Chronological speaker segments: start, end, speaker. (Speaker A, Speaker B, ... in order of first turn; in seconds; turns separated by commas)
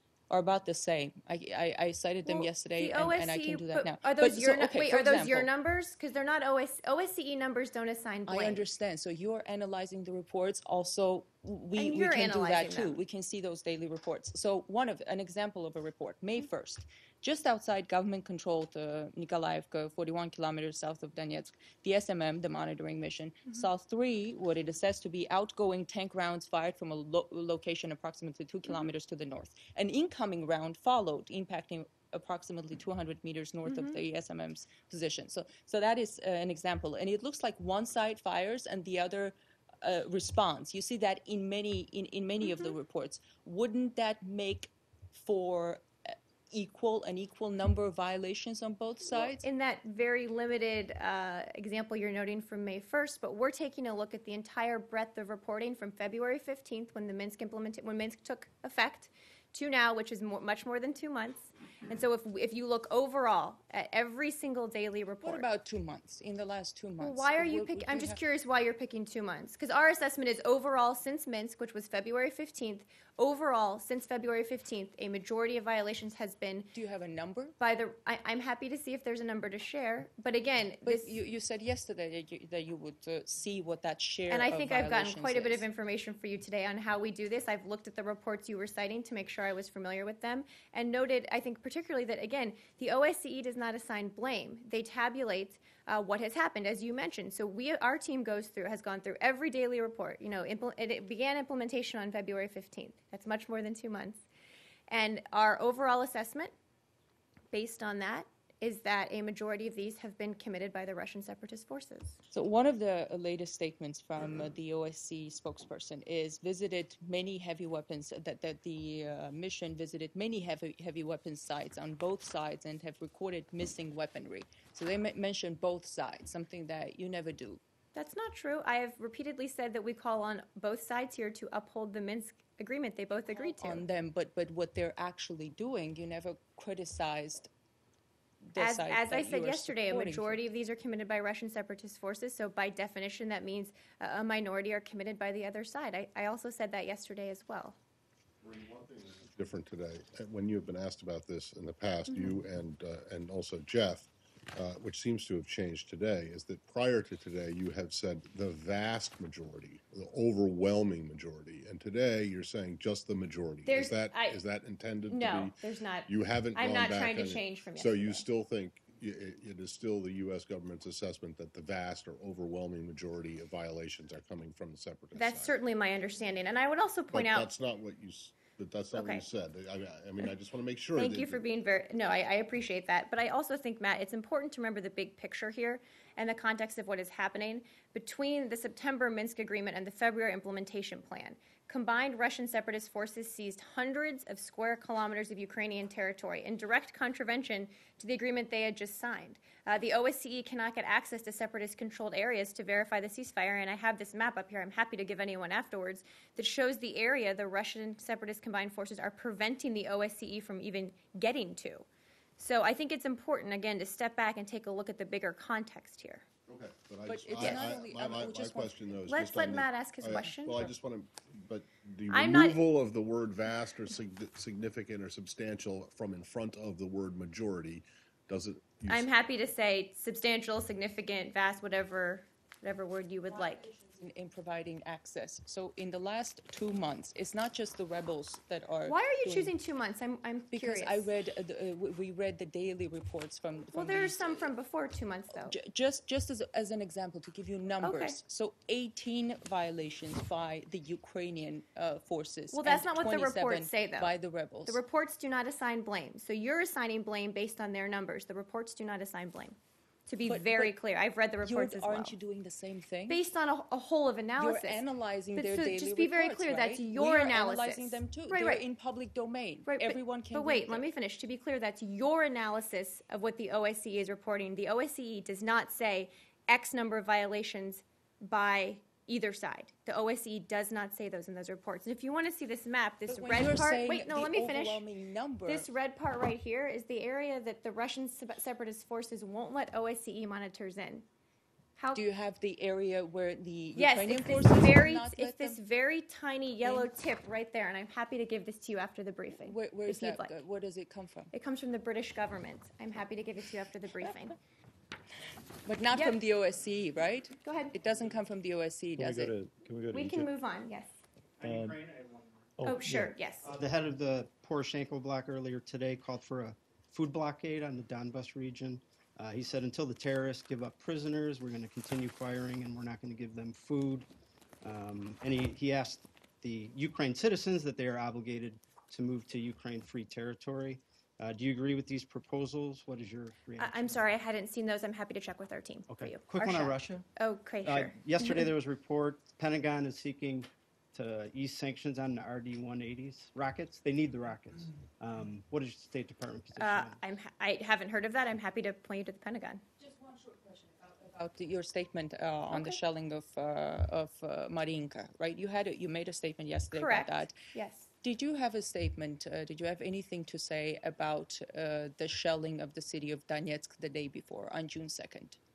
Speaker A: 0.3-5.5, Speaker B: 2.2-8.6, Speaker A: 8.3-49.4, Speaker B: 11.8-13.0, Speaker B: 33.7-34.0, Speaker B: 49.3-65.5, Speaker A: 65.2-68.2, Speaker B: 67.0-76.7, Speaker A: 76.7-77.5, Speaker B: 77.6-81.2, Speaker A: 80.8-85.7, Speaker B: 84.3-104.3, Speaker B: 104.9-106.5, Speaker B: 107.5-112.2, Speaker A: 112.3-127.6, Speaker B: 128.0-133.8, Speaker A: 133.3-137.5, Speaker A: 138.5-140.4, Speaker B: 138.6-147.8, Speaker C: 148.4-175.6, Speaker B: 163.7-164.4, Speaker B: 165.1-168.3, Speaker B: 175.2-177.5, Speaker C: 177.1-181.4, Speaker B: 178.9-179.2, Speaker B: 180.9-211.9, Speaker B: 212.4-216.3, Speaker C: 216.5-229.1, Speaker A: 217.1-219.0, Speaker B: 217.4-217.7, Speaker B: 219.1-220.6, Speaker A: 220.1-220.7, Speaker B: 222.1-222.6, Speaker B: 228.9-233.7, Speaker A: 233.3-239.5, Speaker B: 238.8-241.1, Speaker A: 240.5-244.5, Speaker B: 243.7-245.6, Speaker A: 245.3-254.8, Speaker B: 247.8-248.2, Speaker B: 252.5-254.1, Speaker B: 254.7-259.6, Speaker B: 260.1-262.2, Speaker A: 260.3-260.8, Speaker A: 261.4-263.2, Speaker B: 263.1-268.6, Speaker A: 264.4-270.8, Speaker B: 269.7-284.9, Speaker A: 283.1-285.7, Speaker B: 285.5-291.1, Speaker B: 291.8-292.0, Speaker A: 291.9-295.6, Speaker B: 293.8-300.4, Speaker A: 296.6-296.9, Speaker A: 299.4-301.3, Speaker B: 301.3-304.4, Speaker A: 305.6-309.3, Speaker B: 307.4-307.8, Speaker D: 309.0-310.3, Speaker B: 309.9-310.9, Speaker E: 311.4-312.5, Speaker D: 311.4-311.8, Speaker D: 312.6-313.2, Speaker B: 312.6-313.5, Speaker E: 313.4-324.1, Speaker E: 324.6-334.0, Speaker B: 333.6-338.5, Speaker E: 335.9-337.1, Speaker E: 337.6-347.0, Speaker B: 346.6-349.6, Speaker A: 349.8-357.4, Speaker B: 352.5-352.8, Speaker B: 356.7-357.9, Speaker A: 358.0-365.4